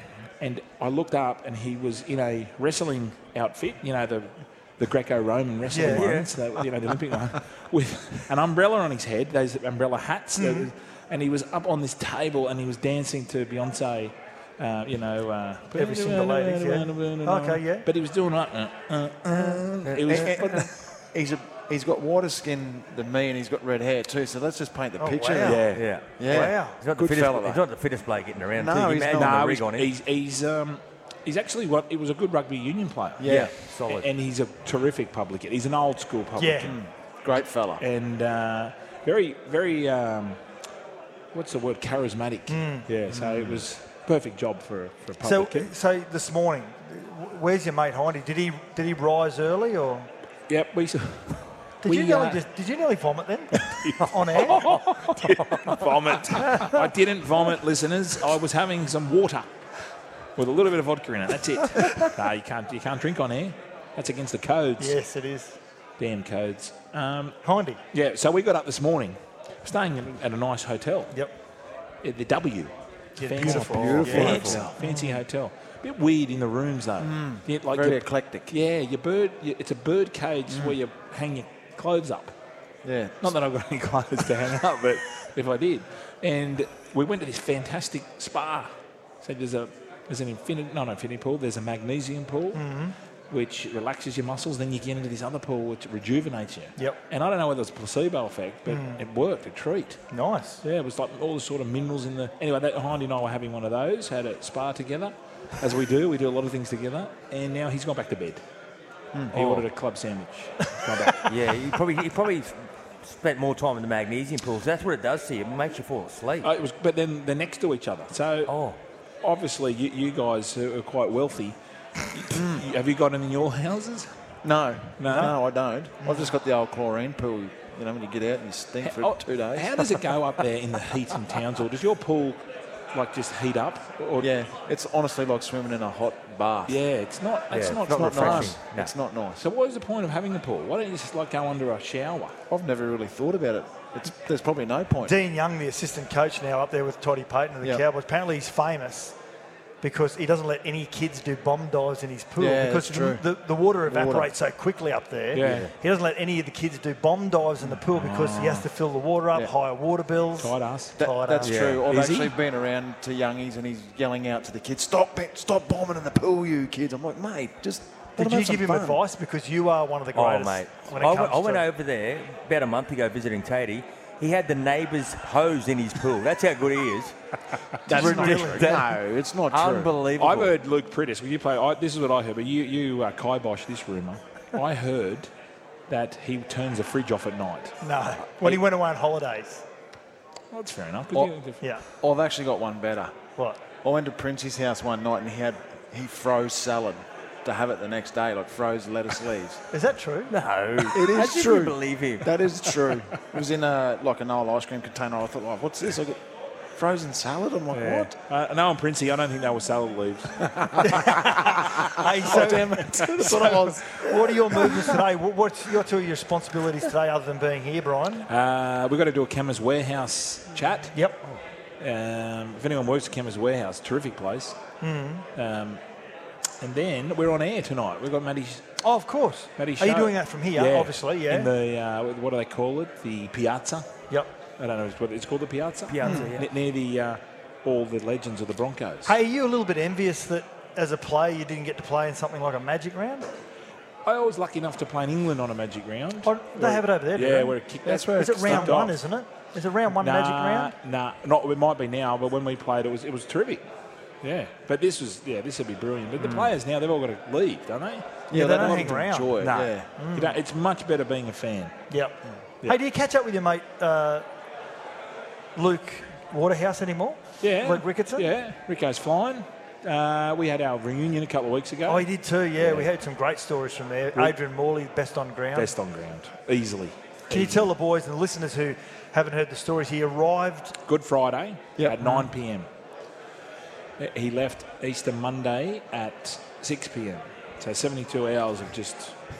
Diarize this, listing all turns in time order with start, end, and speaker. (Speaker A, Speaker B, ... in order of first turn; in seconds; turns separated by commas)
Speaker A: 0.4-20.7, Speaker B: 5.7-6.1, Speaker C: 5.8-6.3, Speaker B: 10.4-10.7, Speaker B: 15.8-17.9, Speaker D: 20.0-27.6, Speaker B: 25.0-25.6, Speaker A: 25.4-25.8, Speaker C: 25.7-29.9, Speaker B: 26.3-26.8, Speaker D: 28.6-29.4, Speaker A: 29.1-36.8, Speaker D: 33.2-33.5, Speaker C: 33.2-34.0, Speaker B: 36.4-36.7, Speaker D: 36.6-37.8, Speaker A: 37.8-40.4, Speaker A: 41.3-45.7, Speaker B: 42.5-42.9, Speaker D: 43.1-43.6, Speaker B: 45.2-50.1, Speaker A: 50.5-52.4, Speaker B: 51.8-55.0, Speaker A: 53.6-59.5, Speaker B: 56.4-56.8, Speaker A: 60.4-65.0, Speaker B: 64.8-65.5, Speaker A: 66.0-67.4, Speaker B: 67.4-67.8, Speaker A: 67.9-71.1, Speaker A: 72.0-82.3, Speaker B: 73.2-75.2, Speaker D: 73.4-74.8, Speaker D: 77.0-78.5, Speaker D: 80.5-80.8, Speaker D: 82.8-83.3, Speaker A: 83.2-92.6, Speaker B: 92.5-92.9, Speaker A: 93.3-100.0, Speaker B: 98.7-99.0, Speaker B: 100.1-100.6, Speaker A: 100.6-108.4, Speaker D: 109.1-109.6, Speaker A: 109.3-111.3, Speaker C: 111.2-116.5, Speaker A: 116.4-118.5, Speaker C: 118.5-118.8, Speaker A: 119.2-121.5, Speaker A: 122.1-124.1, Speaker D: 122.3-122.6, Speaker D: 124.4-130.1, Speaker A: 125.0-125.3, Speaker B: 126.0-126.3, Speaker A: 128.8-132.4, Speaker A: 132.9-134.3, Speaker D: 134.2-136.8, Speaker A: 136.7-138.6, Speaker C: 137.5-138.9, Speaker D: 137.9-139.4, Speaker A: 139.4-142.3, Speaker D: 142.5-145.1, Speaker B: 145.0-149.2, Speaker B: 149.8-161.6, Speaker D: 152.4-153.2, Speaker D: 153.8-154.3, Speaker A: 155.3-155.7, Speaker D: 155.4-155.7, Speaker A: 157.9-158.6, Speaker A: 160.4-160.9, Speaker D: 161.0-169.0, Speaker C: 161.4-161.8, Speaker A: 161.9-162.3, Speaker B: 168.2-171.7, Speaker C: 170.1-177.2, Speaker D: 177.8-179.9, Speaker B: 177.9-178.7, Speaker C: 177.9-178.8, Speaker C: 179.5-180.5, Speaker A: 180.2-185.3, Speaker A: 185.9-187.8, Speaker B: 187.8-189.6, Speaker A: 190.5-191.6, Speaker D: 192.0-193.2, Speaker D: 193.8-199.6, Speaker B: 199.7-200.3, Speaker C: 200.3-202.3, Speaker D: 200.9-206.2, Speaker D: 206.7-208.1, Speaker A: 207.7-210.9, Speaker B: 210.8-218.3, Speaker D: 212.2-214.8, Speaker A: 213.1-213.4, Speaker A: 218.3-220.9, Speaker B: 220.9-221.2, Speaker A: 221.8-224.6, Speaker B: 224.8-225.2, Speaker A: 225.3-225.8, Speaker A: 226.6-228.6, Speaker B: 228.8-231.5, Speaker A: 229.6-233.9, Speaker A: 234.6-239.1, Speaker C: 235.9-236.4, Speaker B: 239.0-243.3, Speaker A: 244.1-249.0, Speaker B: 246.2-250.7, Speaker D: 248.0-248.8, Speaker A: 249.9-253.6, Speaker A: 254.2-261.8, Speaker D: 256.2-256.5, Speaker D: 258.3-259.9, Speaker B: 258.3-259.4, Speaker B: 260.0-260.4, Speaker B: 261.9-264.2, Speaker B: 265.6-268.3, Speaker A: 267.4-272.1, Speaker B: 271.9-275.7, Speaker A: 272.6-272.9, Speaker A: 275.5-277.7, Speaker B: 277.3-280.8, Speaker A: 280.9-282.7, Speaker D: 281.8-282.0, Speaker A: 284.0-289.1